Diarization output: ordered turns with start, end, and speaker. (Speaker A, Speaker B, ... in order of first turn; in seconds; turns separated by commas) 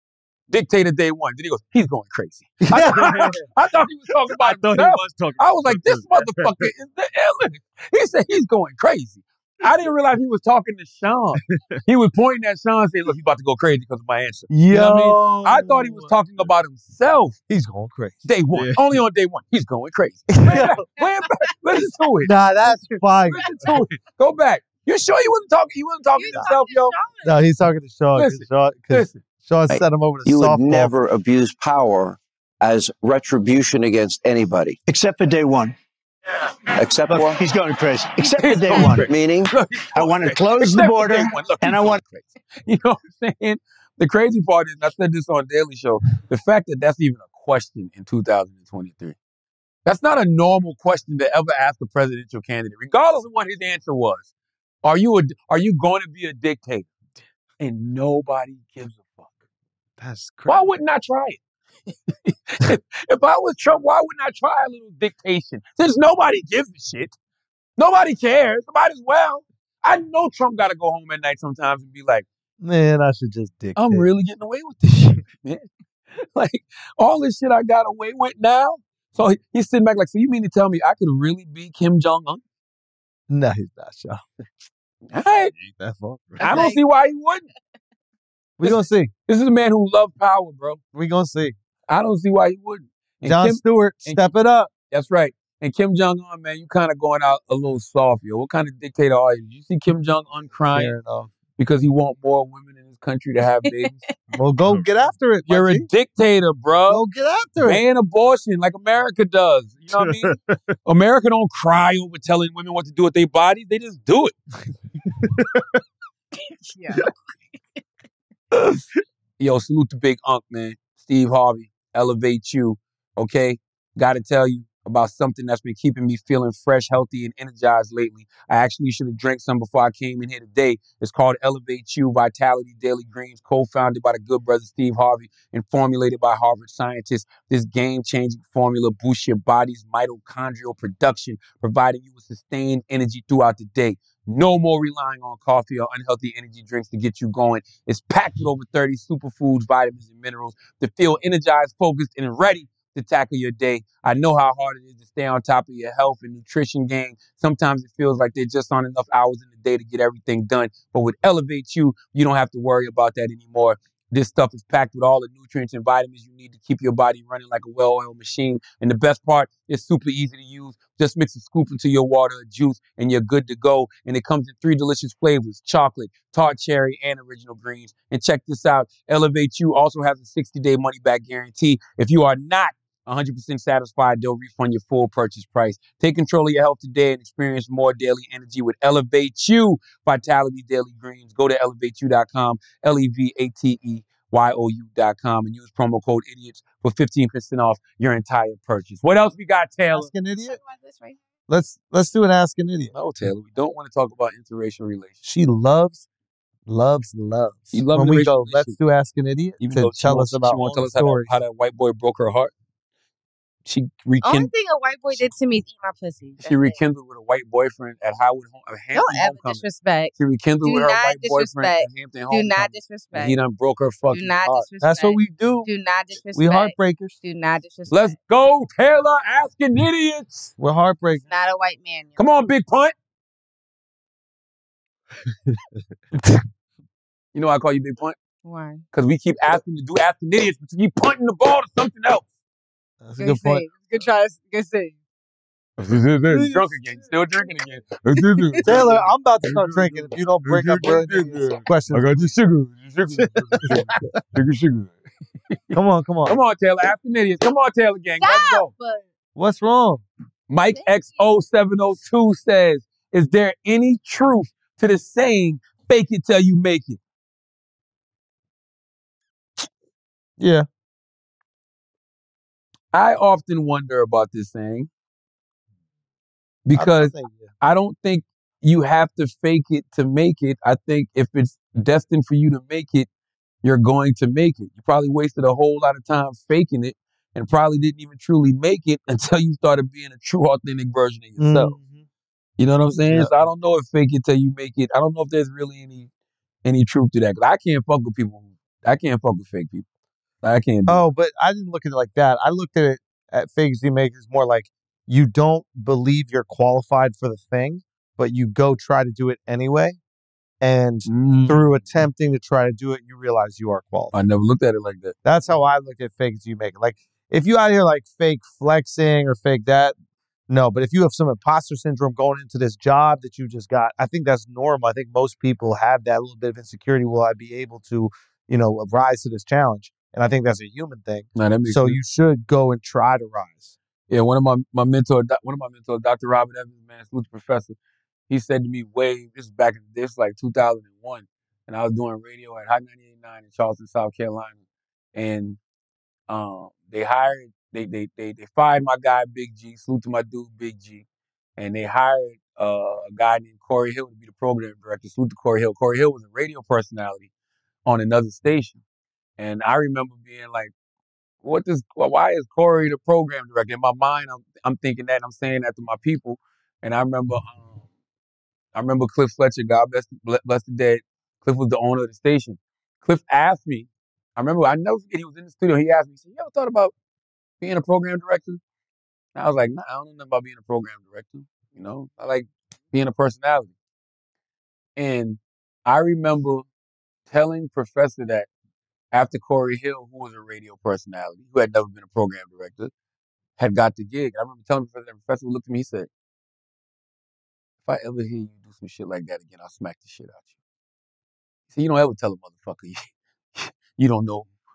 Speaker A: 0.5-17.4, Speaker B: 2.6-3.4, Speaker C: 2.7-3.5, Speaker C: 4.2-6.7, Speaker B: 14.5-16.1, Speaker B: 17.5-18.2, Speaker A: 18.2-22.3, Speaker C: 18.5-18.9, Speaker B: 20.4-20.8, Speaker B: 22.2-23.5, Speaker D: 22.7-23.0, Speaker A: 23.3-26.9, Speaker D: 26.2-27.3, Speaker B: 27.2-30.9, Speaker A: 28.1-29.2, Speaker E: 29.7-34.8, Speaker F: 34.9-35.8, Speaker E: 36.8-37.4, Speaker F: 37.1-39.1, Speaker D: 38.3-39.0, Speaker A: 38.3-49.2, Speaker E: 39.1-39.5, Speaker F: 39.9-42.0, Speaker A: 49.9-54.3, Speaker A: 54.8-56.9, Speaker A: 57.6-59.3, Speaker C: 60.0-60.7, Speaker A: 60.5-67.2, Speaker A: 67.8-72.3, Speaker B: 72.6-74.1, Speaker A: 73.8-82.4, Speaker B: 83.3-84.2, Speaker A: 85.1-85.5, Speaker C: 85.5-86.7, Speaker A: 86.4-87.5, Speaker D: 86.4-87.0, Speaker B: 88.6-89.1, Speaker A: 88.6-90.8, Speaker B: 90.9-91.6, Speaker A: 91.9-94.3, Speaker B: 93.2-94.7, Speaker A: 94.9-101.0, Speaker B: 100.7-101.3, Speaker A: 101.6-104.0, Speaker B: 104.3-105.9, Speaker A: 105.5-107.0, Speaker B: 106.9-107.8, Speaker A: 107.6-114.3, Speaker C: 109.9-110.6, Speaker D: 116.7-117.1, Speaker A: 119.4-200.1, Speaker B: 199.9-200.6, Speaker D: 200.4-201.2, Speaker B: 201.5-202.9, Speaker A: 202.9-205.2, Speaker B: 205.2-206.1, Speaker B: 206.7-211.4, Speaker A: 207.7-208.8, Speaker A: 209.6-212.5, Speaker A: 213.7-214.5, Speaker D: 214.2-216.8, Speaker A: 216.4-219.6, Speaker D: 218.9-223.4, Speaker A: 220.2-224.6, Speaker D: 224.1-228.2, Speaker B: 224.8-225.7, Speaker B: 226.3-227.2, Speaker A: 227.9-230.5, Speaker B: 230.6-231.3, Speaker D: 231.3-232.2, Speaker A: 232.2-232.9, Speaker A: 237.3-238.2, Speaker D: 238.4-238.8, Speaker A: 238.9-242.3, Speaker B: 243.0-243.7, Speaker D: 243.2-245.0, Speaker A: 245.8-254.9, Speaker D: 248.2-248.6, Speaker B: 248.6-252.3, Speaker B: 255.7-256.4, Speaker A: 256.3-258.7, Speaker D: 258.2-259.1, Speaker B: 259.4-260.1, Speaker A: 260.5-267.0, Speaker D: 260.7-261.2, Speaker B: 270.4-270.7, Speaker A: 272.9-274.9, Speaker A: 276.6-283.1, Speaker B: 276.7-277.5, Speaker A: 283.6-291.8, Speaker B: 291.4-292.0, Speaker A: 292.6-296.1, Speaker B: 293.1-293.5, Speaker A: 296.6-299.9, Speaker A: 300.4-301.0, Speaker B: 300.9-310.0, Speaker B: 310.6-314.1, Speaker A: 311.1-311.6, Speaker A: 314.1-315.1, Speaker B: 315.2-319.9, Speaker B: 320.5-333.8, Speaker A: 331.4-332.0, Speaker A: 334.1-337.8, Speaker A: 338.3-344.6, Speaker A: 345.1-345.6, Speaker A: 346.3-351.1, Speaker A: 351.6-357.3, Speaker A: 357.9-358.8, Speaker A: 359.4-360.7, Speaker A: 361.4-367.7, Speaker A: 368.7-376.9, Speaker A: 377.6-378.6, Speaker A: 379.4-383.7, Speaker A: 385.0-386.7, Speaker A: 387.3-388.5, Speaker A: 389.1-392.9, Speaker A: 393.6-396.1, Speaker A: 397.9-400.4, Speaker A: 401.7-404.5